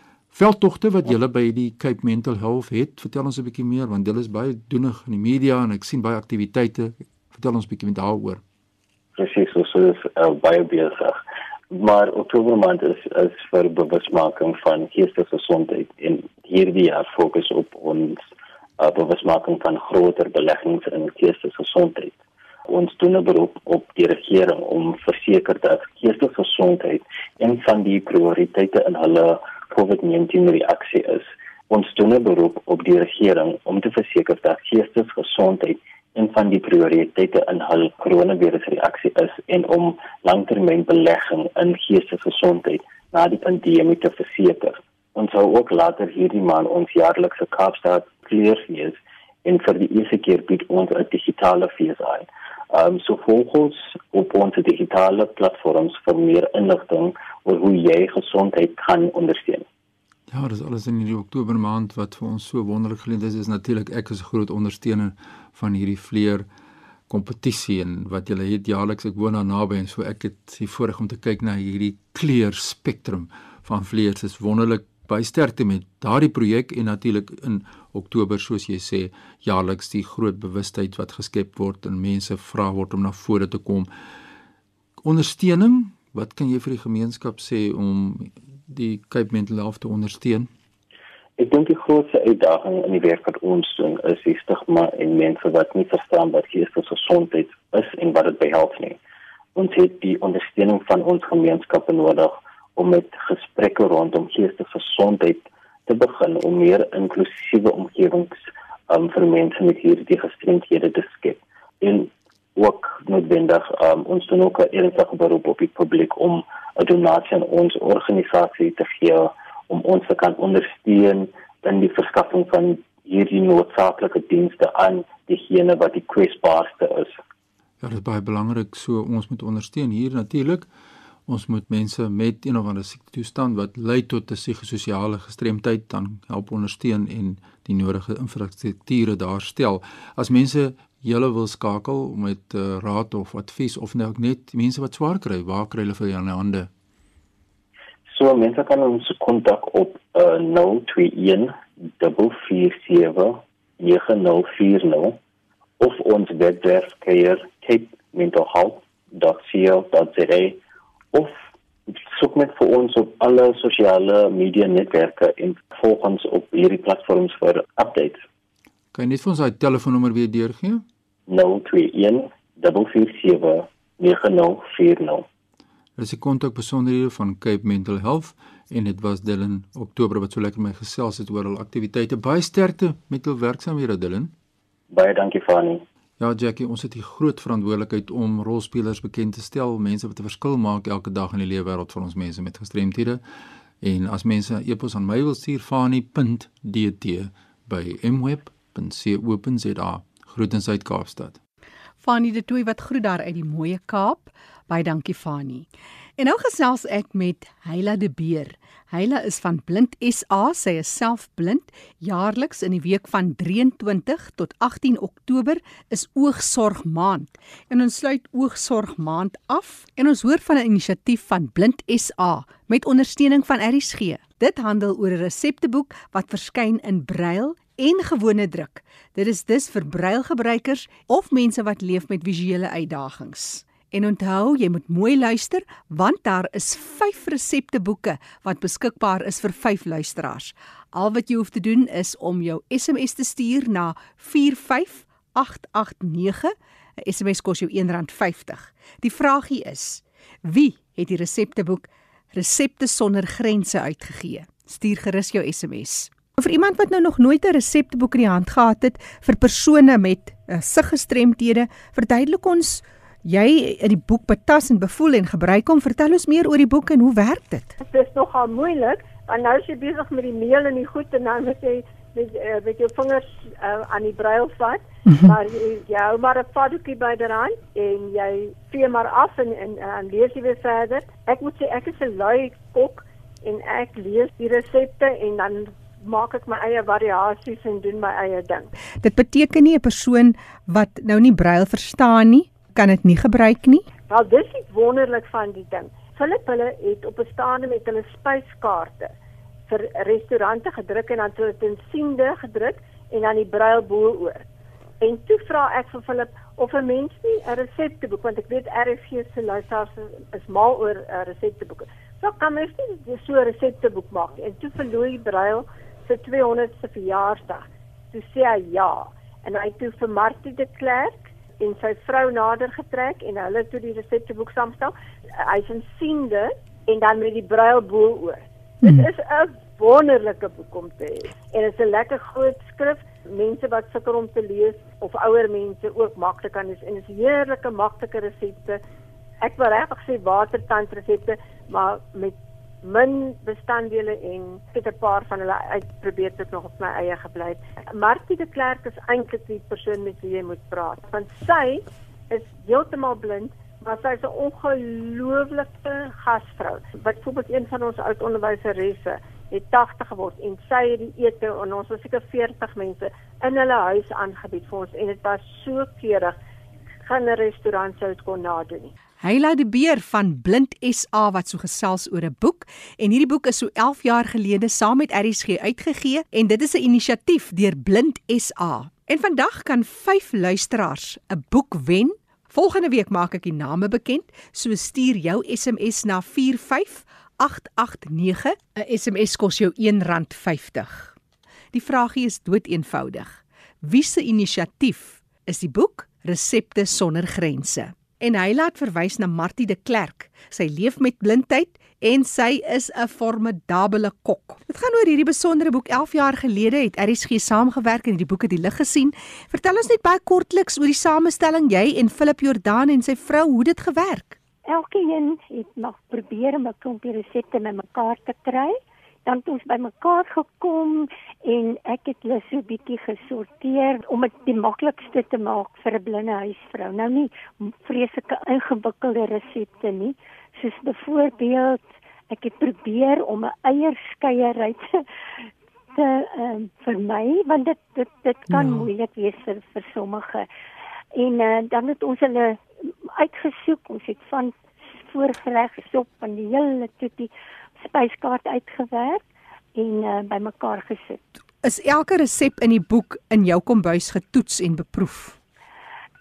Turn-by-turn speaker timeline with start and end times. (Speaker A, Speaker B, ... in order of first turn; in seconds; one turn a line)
Speaker A: 0.3-8.4
Speaker B: 9.2-11.2
Speaker B: 11.7-18.2
Speaker B: 18.8-59.6
Speaker A: 60.3-66.5
Speaker A: 67.1-83.9
Speaker A: 85.0-90.5
Speaker B: 91.4-99.0
Speaker B: 99.5-127.2
Speaker A: 127.8-130.7
Speaker A: 131.3-146.7
Speaker B: 148.1-155.2
Speaker B: 155.8-160.6
Speaker B: 161.1-168.2
Speaker A: 168.9-170.8
Speaker B: 171.3-175.2
Speaker A: 175.9-184.3
Speaker B: 184.9-185.8
Speaker A: 186.2-193.2
Speaker A: 193.8-201.4
Speaker C: 202.0-267.8
Speaker D: 267.8-288.7
Speaker C: 275.1-275.3
Speaker C: 289.0-293.9
Speaker D: 294.1-299.1
Speaker D: 299.7-304.4
Speaker D: 305.0-338.8
Speaker C: 328.8-329.1
Speaker D: 339.4-366.4
Speaker D: 367.0-368.9
Speaker C: 369.2-391.1
Speaker C: 391.7-414.4
Speaker E: 414.6-440.5
Speaker E: 441.1-449.2
Speaker E: 449.8-451.2
Speaker C: 451.6-455.4